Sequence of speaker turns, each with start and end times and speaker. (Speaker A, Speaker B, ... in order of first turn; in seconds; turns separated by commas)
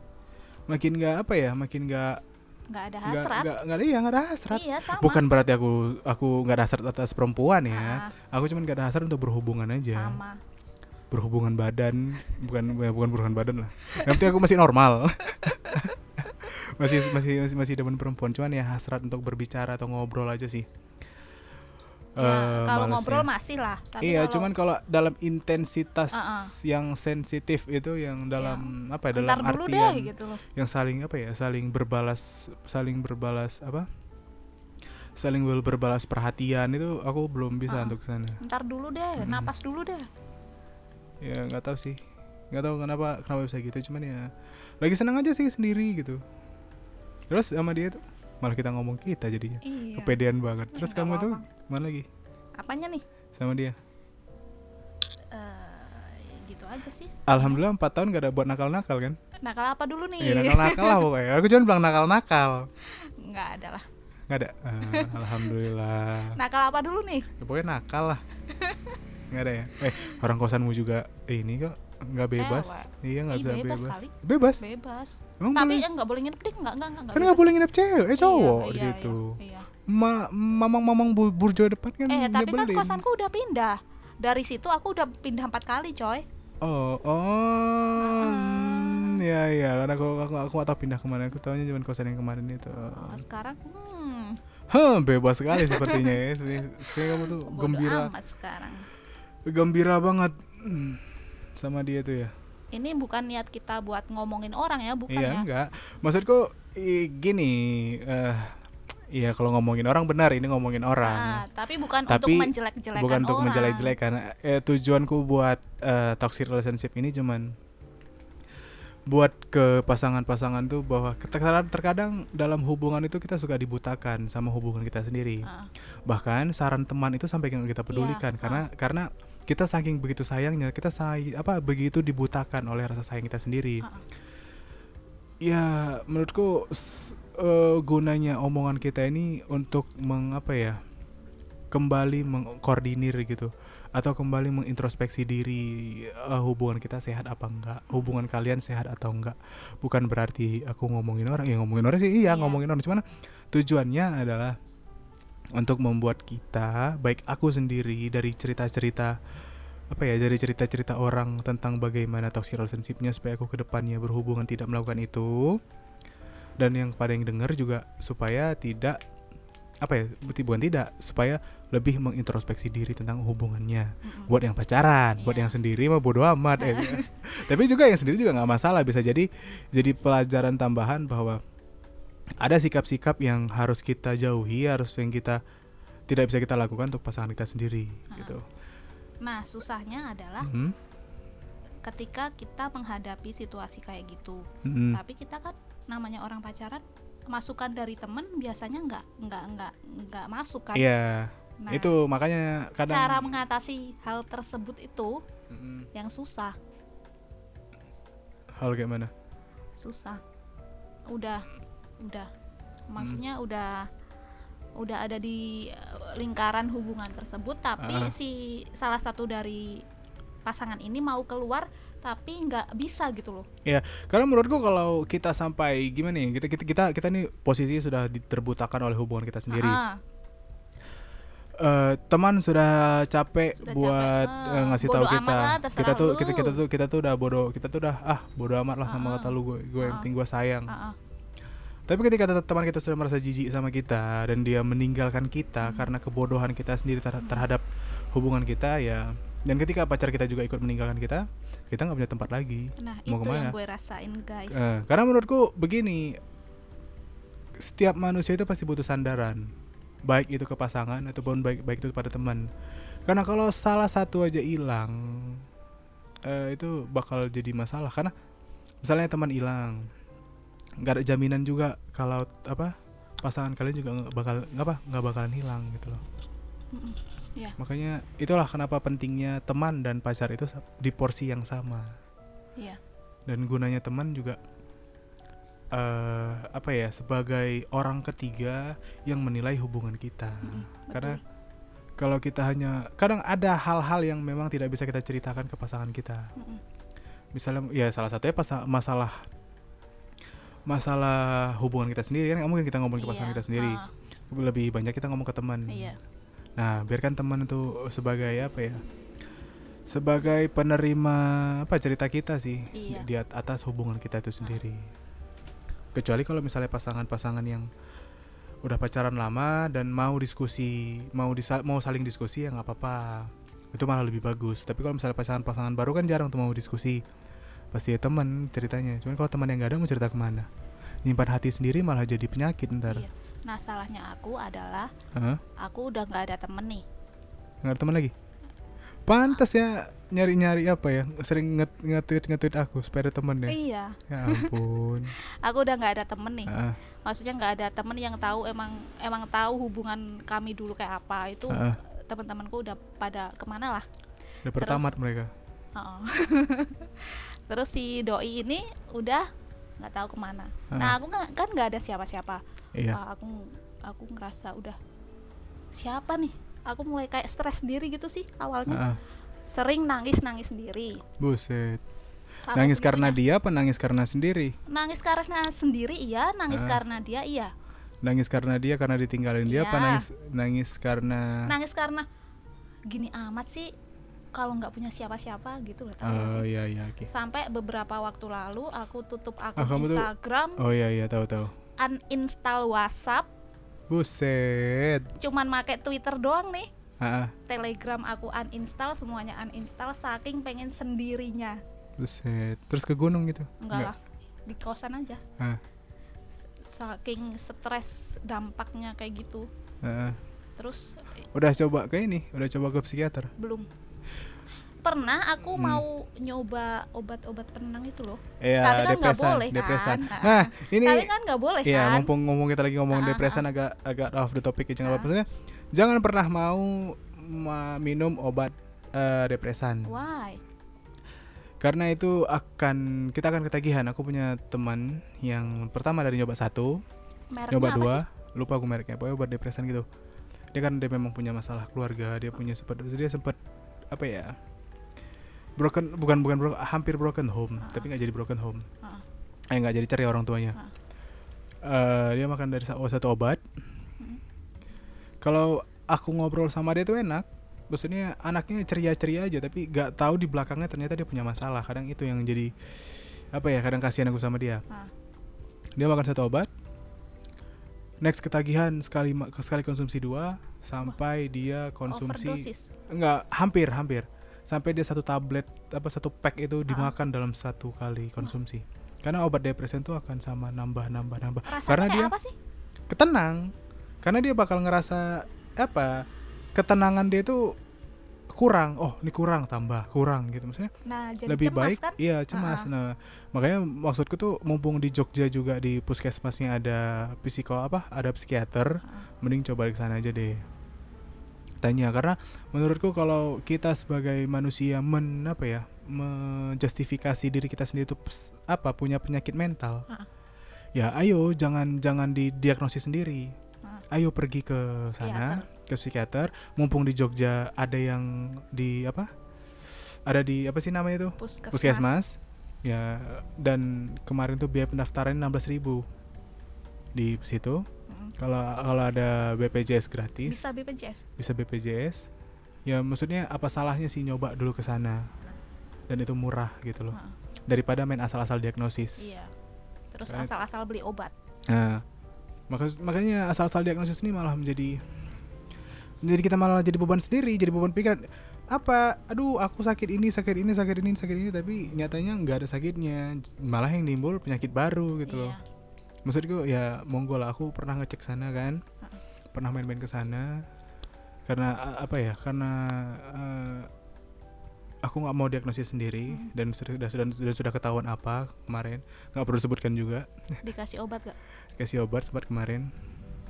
Speaker A: 0.7-2.2, Speaker B: 2.7-3.5, Speaker A: 3.1-10.2, Speaker B: 4.5-5.2, Speaker B: 7.7-8.1, Speaker B: 9.9-10.4, Speaker A: 11.1-20.7, Speaker B: 13.9-14.3, Speaker B: 15.7-15.9, Speaker A: 22.2-23.3, Speaker B: 22.2-24.5, Speaker A: 24.0-33.9, Speaker B: 26.1-26.5, Speaker B: 28.4-30.4, Speaker A: 35.2-38.4, Speaker B: 37.7-40.1, Speaker A: 39.2-39.5, Speaker A: 41.2-46.2, Speaker A: 47.3-52.1, Speaker B: 49.6-50.2, Speaker B: 50.7-51.5, Speaker B: 52.6-53.0, Speaker A: 53.4-53.8, Speaker B: 55.3-57.6, Speaker A: 57.3-59.2, Speaker B: 59.4-61.1, Speaker A: 60.2-62.7, Speaker B: 62.9-63.9, Speaker A: 64.3-66.4, Speaker B: 64.8-65.5, Speaker B: 66.4-67.3, Speaker A: 67.4-68.2, Speaker B: 68.5-69.0, Speaker A: 69.3-74.6, Speaker B: 72.3-77.5, Speaker A: 75.4-75.9, Speaker A: 77.1-79.3, Speaker B: 78.2-79.7, Speaker A: 79.9-83.0, Speaker B: 82.1-86.2, Speaker A: 86.6-93.2, Speaker B: 88.0-89.2, Speaker B: 92.7-94.4, Speaker A: 94.7-98.1, Speaker B: 95.5-96.2, Speaker B: 96.8-98.9, Speaker A: 99.5-102.3, Speaker B: 102.7-105.5, Speaker A: 105.1-108.6, Speaker A: 109.1-111.5, Speaker B: 111.0-113.9, Speaker A: 112.1-117.5, Speaker A: 119.1-125.5, Speaker B: 125.4-125.7, Speaker A: 126.1-133.8, Speaker B: 127.9-128.7, Speaker A: 135.4-140.8, Speaker A: 141.7-154.6, Speaker B: 152.3-152.6, Speaker A: 155.6-159.2, Speaker A: 159.9-165.6, Speaker A: 166.6-169.0, Speaker A: 169.8-181.4, Speaker B: 174.1-174.3, Speaker B: 175.2-175.6, Speaker B: 176.6-177.1, Speaker A: 182.4-185.4, Speaker A: 186.1-188.4, Speaker B: 188.1-188.4, Speaker B: 189.2-190.5, Speaker A: 190.4-190.8, Speaker B: 191.8-200.9, Speaker A: 194.7-195.0, Speaker A: 200.8-203.3, Speaker B: 201.6-201.9, Speaker B: 202.9-205.2, Speaker A: 205.5-205.9, Speaker B: 205.9-206.6, Speaker A: 208.6-209.1, Speaker B: 209.8-210.2, Speaker B: 211.1-211.5, Speaker B: 212.0-212.3, Speaker B: 212.9-213.9, Speaker B: 214.8-219.8, Speaker A: 217.8-218.2, Speaker B: 220.4-223.5, Speaker A: 223.7-229.8, Speaker B: 229.5-230.0, Speaker A: 231.6-240.7, Speaker B: 233.6-236.6, Speaker B: 238.9-240.1, Speaker B: 240.7-241.0, Speaker A: 241.9-253.6, Speaker B: 245.6-245.9, Speaker B: 247.2-247.5, Speaker B: 252.8-254.7, Speaker A: 254.5-256.2, Speaker A: 257.6-259.5, Speaker A: 260.1-262.5, Speaker A: 263.1-265.5, Speaker A: 266.3-268.1, Speaker A: 268.8-269.9, Speaker A: 270.8-276.0, Speaker B: 276.7-277.6, Speaker A: 277.6-282.0, Speaker A: 283.3-284.4, Speaker A: 285.7-291.2, Speaker B: 290.4-291.2, Speaker A: 292.0-296.3, Speaker B: 296.4-296.6, Speaker A: 297.3-299.3, Speaker A: 300.7-305.9, Speaker B: 303.0-303.9, Speaker B: 305.7-306.0, Speaker A: 306.6-308.8, Speaker A: 309.9-314.9, Speaker B: 312.7-313.1, Speaker A: 315.9-317.7, Speaker A: 318.6-327.0, Speaker A: 327.7-330.5, Speaker A: 331.1-333.1, Speaker B: 332.9-334.9, Speaker A: 335.1-335.4, Speaker B: 335.6-336.8, Speaker A: 337.6-338.1, Speaker A: 339.1-343.6, Speaker B: 343.5-344.6, Speaker A: 344.1-345.1, Speaker B: 345.2-353.9, Speaker A: 346.5-346.8, Speaker A: 351.5-351.8, Speaker A: 354.4-355.3, Speaker B: 354.6-354.9, Speaker B: 355.8-359.3, Speaker B: 359.8-364.8, Speaker A: 360.7-361.0, Speaker B: 365.8-368.8, Speaker A: 368.7-369.0, Speaker B: 369.5-371.0, Speaker A: 371.2-371.8, Speaker B: 372.4-373.2, Speaker A: 372.5-374.6, Speaker B: 374.7-377.5, Speaker A: 376.5-376.8, Speaker A: 378.0-381.5, Speaker B: 379.5-380.0, Speaker B: 381.5-382.1, Speaker B: 382.9-383.7, Speaker B: 384.3-386.4, Speaker A: 386.0-387.1, Speaker B: 387.0-390.6, Speaker A: 389.6-391.5, Speaker B: 391.8-393.3, Speaker A: 393.9-395.1, Speaker B: 395.2-396.7, Speaker A: 397.0-397.3, Speaker B: 397.5-401.6, Speaker A: 402.0-403.9, Speaker B: 403.6-405.2, Speaker B: 406.6-409.5, Speaker A: 409.8-410.2, Speaker B: 410.6-411.1, Speaker A: 411.3-413.3, Speaker B: 413.4-413.7, Speaker B: 414.8-422.1, Speaker A: 415.4-415.9, Speaker A: 418.4-421.1, Speaker A: 421.6-429.9, Speaker B: 422.9-423.4, Speaker B: 424.8-425.1, Speaker B: 429.9-430.4, Speaker A: 431.6-436.8, Speaker B: 437.3-438.0, Speaker A: 437.5-439.9, Speaker A: 440.5-443.4, Speaker A: 443.9-444.4, Speaker A: 445.6-448.7, Speaker B: 447.6-447.9, Speaker A: 449.5-450.6, Speaker A: 451.6-453.4, Speaker A: 455.2-462.6, Speaker A: 463.3-464.6, Speaker A: 465.8-466.5, Speaker A: 468.0-482.1, Speaker B: 471.9-472.7, Speaker B: 476.7-476.9, Speaker B: 481.5-482.4, Speaker A: 482.9-487.6, Speaker A: 488.3-490.7, Speaker B: 490.9-492.7, Speaker A: 491.3-500.4, Speaker A: 501.6-509.9, Speaker A: 510.8-513.4, Speaker A: 513.9-519.1, Speaker B: 514.9-515.5, Speaker A: 520.1-525.8, Speaker B: 521.2-522.0, Speaker A: 527.0-527.7, Speaker B: 527.9-528.1, Speaker A: 528.2-530.5, Speaker B: 530.3-531.1, Speaker A: 531.2-532.1, Speaker A: 532.7-535.1, Speaker A: 535.9-537.0, Speaker A: 537.5-539.2, Speaker B: 539.0-539.3, Speaker B: 539.9-541.1, Speaker A: 541.5-541.8, Speaker A: 542.5-544.8, Speaker A: 546.0-555.4, Speaker B: 555.1-555.4, Speaker A: 556.1-558.6, Speaker A: 559.3-560.5, Speaker A: 561.3-563.7, Speaker A: 564.8-570.1, Speaker B: 570.4-571.2, Speaker A: 571.6-572.7